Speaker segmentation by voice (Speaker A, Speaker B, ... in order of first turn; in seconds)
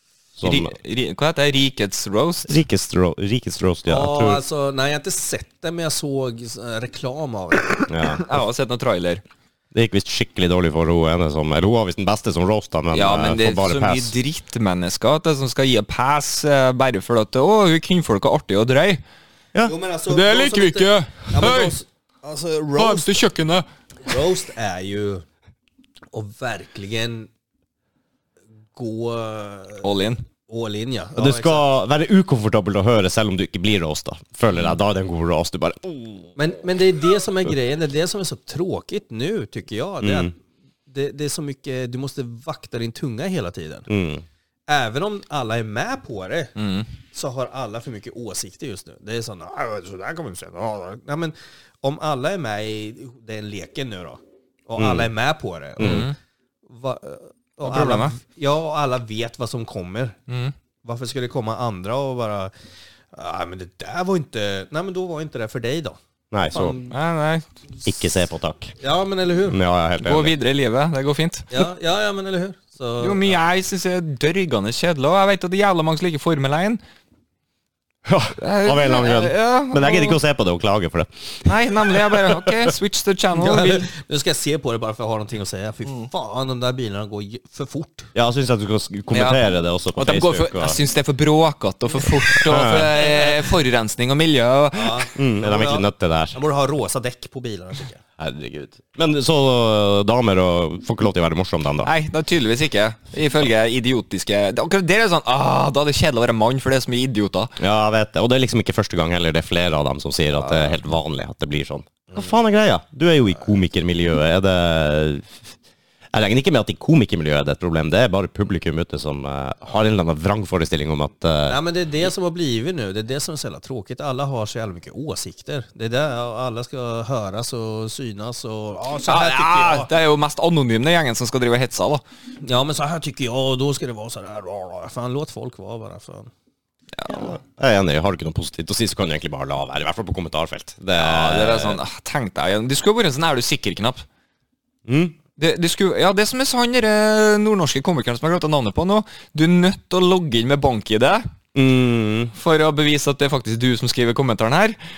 Speaker A: 0.4-0.7, 2.5-4.4, 7.9-8.2, 9.7-14.1, 31.2-36.3, 40.0-40.3, 43.9-44.2, 54.8-55.1, 55.8-56.1, 66.3-66.8, 67.8-68.8, 69.5-70.3, 78.1-82.8, 88.2-90.8, 92.5-93.0, 95.2-96.4, 98.2-101.9, 107.6-115.5, 116.1-121.6, 137.1-141.8, 144.9-145.2, 151.5-152.3
Speaker B: 0.4-2.6, 8.2-9.2, 12.9-19.0, 20.1-21.7, 22.8-23.6, 29.8-30.2, 46.6-46.9, 55.8-56.1, 57.6-58.1, 60.3-60.5, 66.9-67.5, 70.0-71.7, 73.0-76.8, 78.4-80.2, 81.5-83.9, 89.1-95.1, 101.8-107.5, 129.1-132.0, 137.0-137.3, 141.0-144.1, 145.4-151.2, 152.3-154.8
Speaker C: 3.9-7.9, 19.6-23.2, 24.1-25.2, 26.1-27.3, 28.7-29.9, 30.5-31.6, 36.4-40.3, 40.9-43.9, 44.7-46.5, 47.1-56.1, 56.7-60.2, 60.8-62.5, 63.1-66.0, 66.5-66.9, 68.8-69.6, 71.5-73.3, 83.4-88.1, 93.1-93.3, 94.7-98.0, 121.5-129.9, 132.4-136.3